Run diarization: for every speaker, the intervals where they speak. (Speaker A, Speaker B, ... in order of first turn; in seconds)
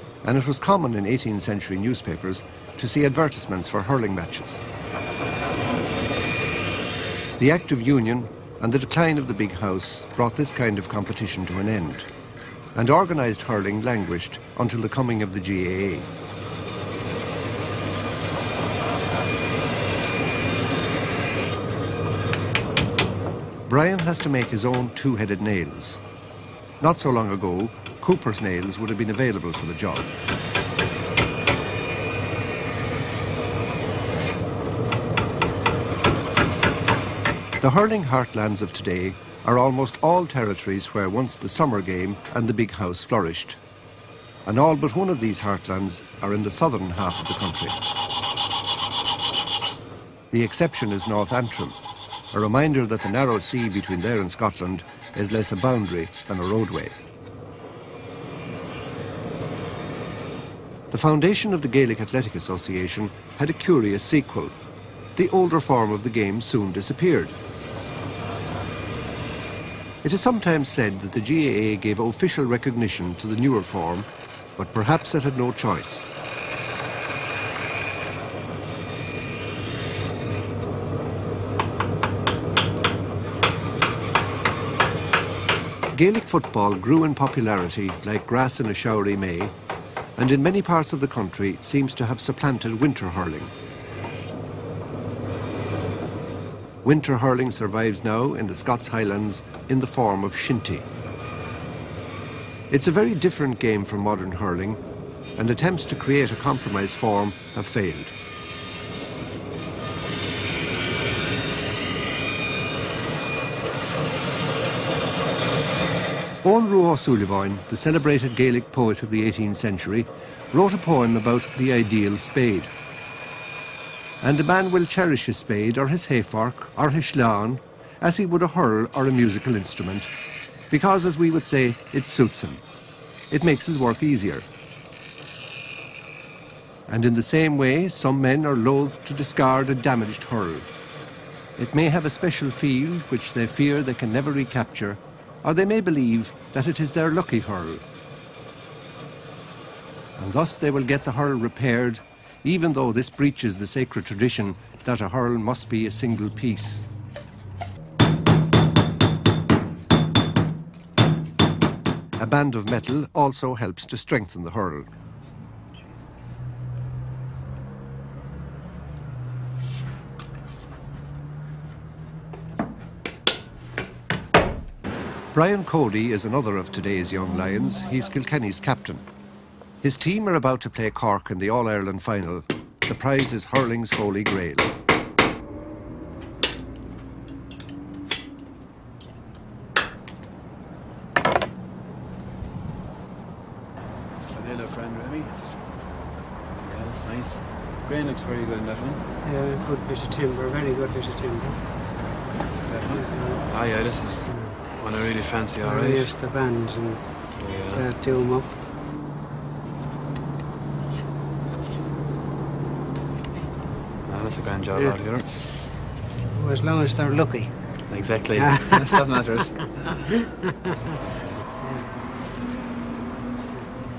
Speaker A: 0.2-4.6, 7.4-12.1, 12.7-16.1, 23.7-26.0, 26.8-30.1, 37.6-43.6, 44.4-47.8, 50.3-51.8, 52.3-57.0, 60.9-64.5, 65.2-67.4, 70.0-76.1, 85.9-89.5, 90.2-93.5, 96.8-100.9, 102.7-104.8, 105.3-108.1, 116.4-122.7, 124.2-130.1, 130.7-132.6, 133.3-134.5, 136.9-140.7, 141.6-147.8, 150.2-156.8, 162.2-164.9, 175.3-179.0, 179.8-184.7
Speaker B: 194.3-195.4, 196.6-199.0, 202.6-206.1, 207.3-207.9, 214.1-215.2, 217.9-220.0
Speaker C: 199.2-201.8, 202.9-204.7, 205.6-208.5, 216.3-219.1, 221.6-222.1